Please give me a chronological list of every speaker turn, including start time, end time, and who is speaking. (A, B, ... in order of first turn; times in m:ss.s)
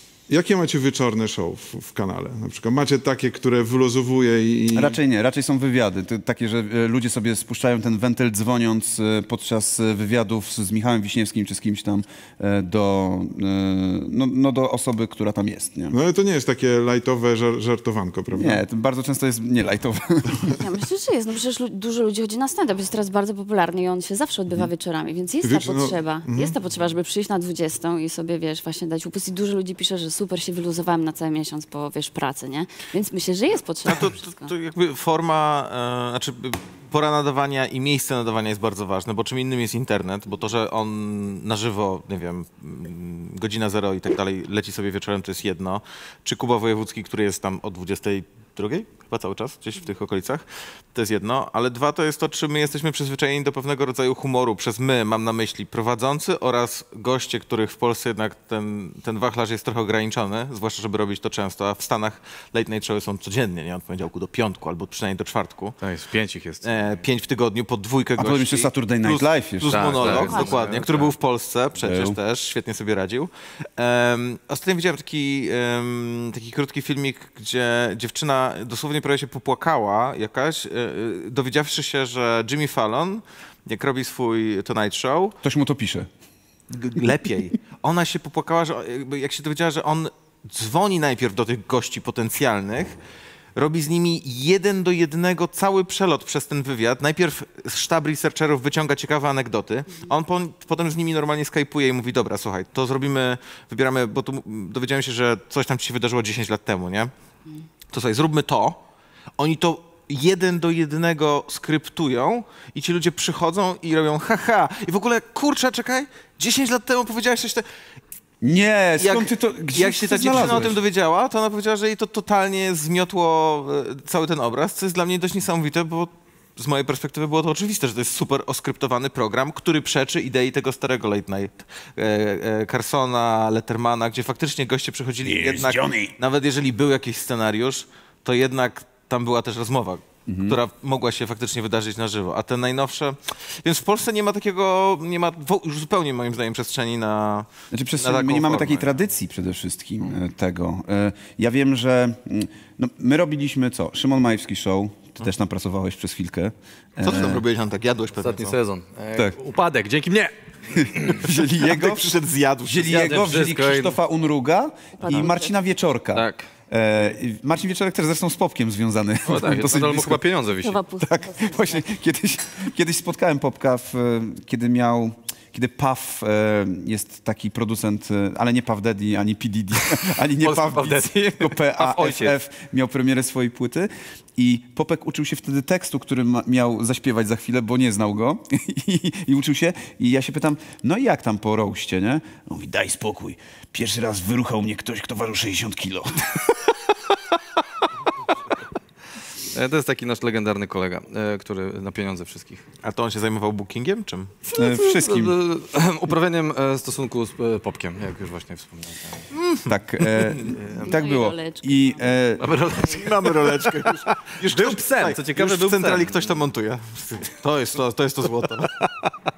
0:00.3-0:05.0 A
0:04.7-0:16.0 B
0:15.9-0:18.6 A
0:18.3-0:20.6 B
0:20.6-0:34.5 C
0:25.4-0:26.5 A
0:33.8-1:05.8 D
1:05.8-1:06.7 E
1:06.6-1:25.4 D
1:08.2-1:10.3 B
1:09.7-1:11.1 E
1:10.1-1:10.6 C
1:11.8-1:12.2 B
1:25.4-1:26.1 B
1:26.7-1:33.0 D
1:33.6-1:47.1 D
1:47.9-1:48.8 D
1:49.4-1:57.6 D
1:58.4-2:00.8 B
1:59.0-2:29.0 D
2:15.2-2:16.2 B
2:20.3-2:20.6 B
2:27.7-2:37.4 B
2:37.0-2:38.6 D
2:38.2-2:41.2 E
2:40.8-2:42.1 B
2:41.6-2:43.2 D
2:42.7-2:50.2 B
2:42.9-2:44.0 E
2:45.0-2:45.5 C
2:46.1-2:46.5 E
2:49.2-2:50.8 E
2:50.6-2:51.9 C
2:51.0-3:16.6 B
3:00.4-3:02.3 E
3:19.5-3:22.6 E
3:22.8-3:24.3 D
3:24.5-3:29.2 E
3:24.5-3:25.3 B
3:29.3-3:30.5 D
3:29.7-3:32.4 B
3:30.6-3:30.9 E
3:30.8-3:32.2 C
3:32.4-3:36.3 E
3:32.8-3:38.8 D
3:38.8-3:39.1 E